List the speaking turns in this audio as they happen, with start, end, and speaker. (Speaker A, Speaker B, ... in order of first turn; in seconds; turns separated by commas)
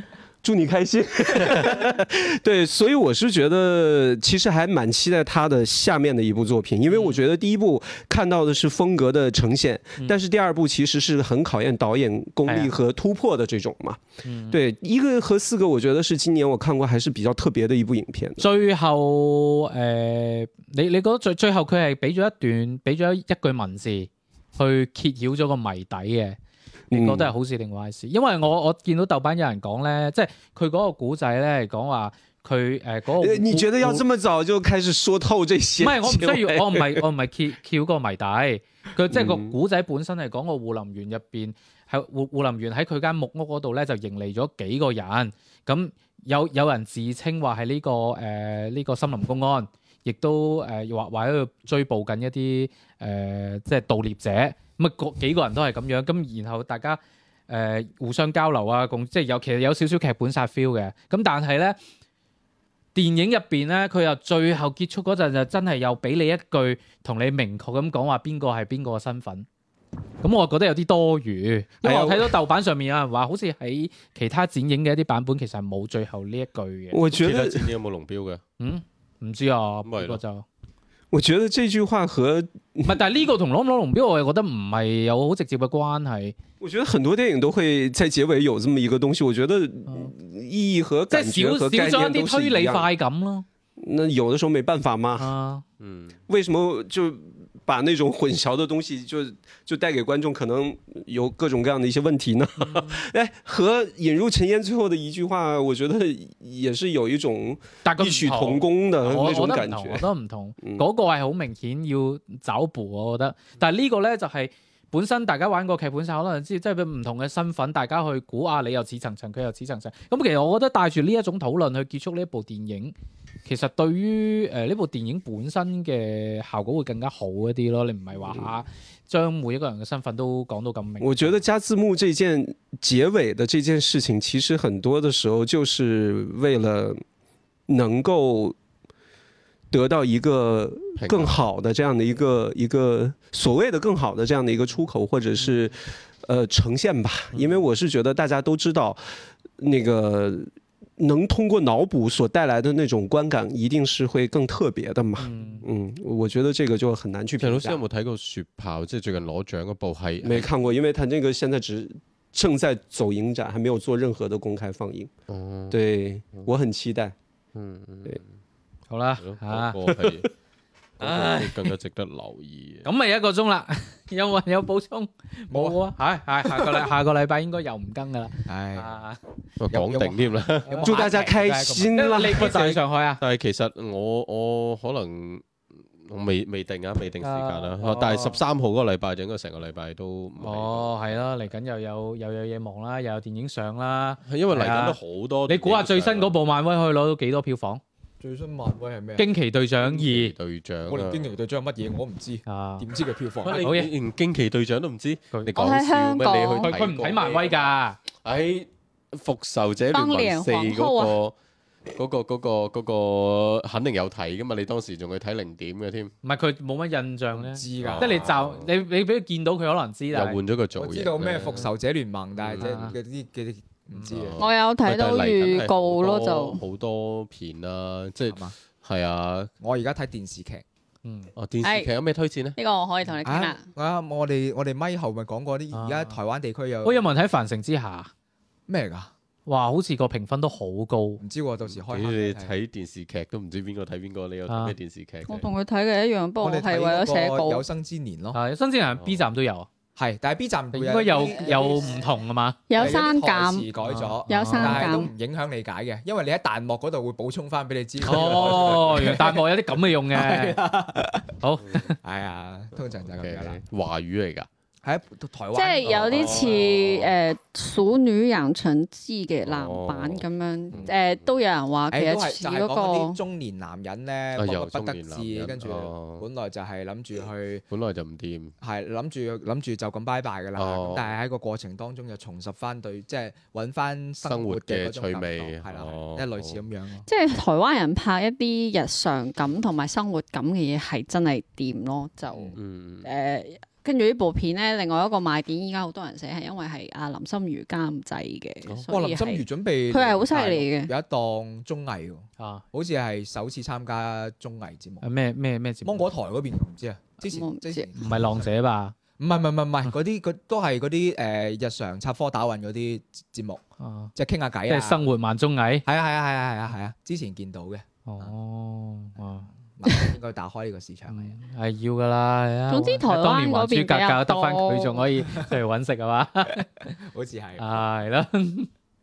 Speaker A: 0.4-18.5, Speaker B: 6.9-7.2, Speaker B: 12.5-12.7, Speaker B: 14.2-14.6, Speaker B: 18.4-26.4, Speaker A: 26.9-27.3, Speaker B: 26.9-34.0, Speaker A: 33.2-37.0, Speaker B: 35.8-61.8, Speaker A: 39.1-39.6, Speaker B: 63.0-69.5, Speaker B: 70.2-77.0, Speaker A: 71.8-72.4, Speaker A: 76.9-77.7, Speaker C: 77.2-78.4, Speaker B: 78.6-80.5, Speaker C: 79.8-80.2, Speaker A: 81.1-83.0, Speaker B: 82.8-86.3, Speaker A: 86.6-92.9, Speaker B: 89.9-90.1, Speaker B: 91.1-93.5, Speaker A: 93.8-95.3, Speaker B: 95.2-95.6, Speaker C: 95.8-96.2, Speaker A: 96.3-110.0, Speaker B: 102.6-103.0, Speaker B: 107.8-122.9, Speaker B: 123.5-131.4, Speaker A: 131.0-137.0, Speaker A: 137.7-138.6, Speaker A: 139.7-149.0, Speaker C: 141.0-141.4, Speaker A: 149.6-157.8, Speaker B: 155.2-155.7, Speaker C: 157.4-160.5, Speaker A: 160.2-165.1, Speaker C: 165.3-165.8, Speaker A: 165.7-167.2, Speaker C: 167.6-168.3, Speaker B: 168.9-170.2, Speaker C: 169.2-170.3, Speaker B: 171.0-171.7, Speaker C: 171.0-172.9, Speaker B: 172.8-179.2, Speaker D: 175.5-175.8, Speaker D: 176.4-176.9, Speaker D: 178.5-179.0, Speaker C: 179.6-180.8, Speaker D: 179.7-181.9, Speaker A: 180.8-182.8, Speaker B: 180.8-183.2, Speaker C: 183.2-185.4, Speaker C: 186.1-190.9, Speaker B: 187.2-188.4, Speaker B: 190.4-197.8, Speaker C: 194.3-196.4, Speaker D: 198.2-199.3, Speaker B: 199.2-200.3, Speaker C: 199.8-201.3, Speaker D: 200.9-203.8, Speaker B: 202.5-202.9, Speaker C: 203.4-207.5, Speaker B: 203.5-203.9, Speaker E: 205.5-206.7, Speaker B: 206.6-208.0, Speaker C: 208.2-211.3, Speaker E: 209.9-211.2, Speaker C: 211.9-216.1, Speaker B: 216.2-220.4, Speaker D: 217.4-218.3, Speaker C: 217.8-218.7, Speaker C: 220.1-221.7, Speaker D: 220.8-224.4, Speaker C: 222.4-222.9, Speaker B: 222.6-222.9, Speaker B: 223.9-224.2, Speaker C: 224.1-229.5, Speaker E: 224.4-226.6, Speaker D: 228.3-228.6, Speaker D: 229.6-230.7, Speaker B: 231.1-231.3, Speaker C: 231.4-232.6, Speaker E: 231.6-231.9, Speaker E: 232.6-233.7, Speaker D: 233.2-237.0, Speaker B: 235.7-236.2, Speaker B: 236.8-238.1, Speaker D: 238.7-239.1, Speaker B: 239.5-241.2, Speaker D: 241.2-242.5, Speaker C: 241.7-245.5, Speaker B: 244.5-244.8, Speaker E: 245.2-247.6, Speaker D: 246.4-248.4, Speaker B: 248.3-249.7, Speaker C: 249.0-249.3, Speaker D: 250.0-252.0, Speaker B: 250.7-252.6, Speaker E: 251.0-252.1, Speaker E: 252.7-253.7, Speaker D: 252.8-259.4, Speaker B: 253.8-254.9, Speaker E: 254.3-255.1, Speaker B: 258.0-260.7, Speaker D: 260.1-261.3, Speaker B: 261.4-262.0, Speaker D: 262.0-263.6, Speaker C: 263.0-264.5, Speaker D: 264.8-266.6, Speaker E: 265.5-273.2, Speaker C: 265.8-267.1, Speaker C: 269.4-271.2, Speaker D: 271.9-277.6, Speaker C: 274.4-276.2, Speaker C: 277.7-278.5, Speaker D: 278.6-287.1, Speaker C: 280.6-281.1, Speaker C: 284.3-286.6, Speaker E: 287.1-300.9, Speaker C: 292.6-293.1, Speaker D: 298.9-305.1, Speaker B: 302.4-302.6, Speaker B: 305.0-306.1, Speaker D: 305.9-308.3, Speaker E: 307.3-307.9, Speaker B: 308.0-308.9, Speaker D: 309.2-313.6, Speaker B: 313.8-314.1, Speaker D: 314.1-315.1, Speaker B: 314.7-315.9, Speaker D: 315.9-318.3, Speaker B: 318.1-319.5, Speaker D: 319.5-321.4, Speaker B: 321.1-326.9, Speaker E: 322.7-325.0, Speaker D: 325.2-325.5, Speaker D: 327.0-327.8, Speaker B: 327.6-328.7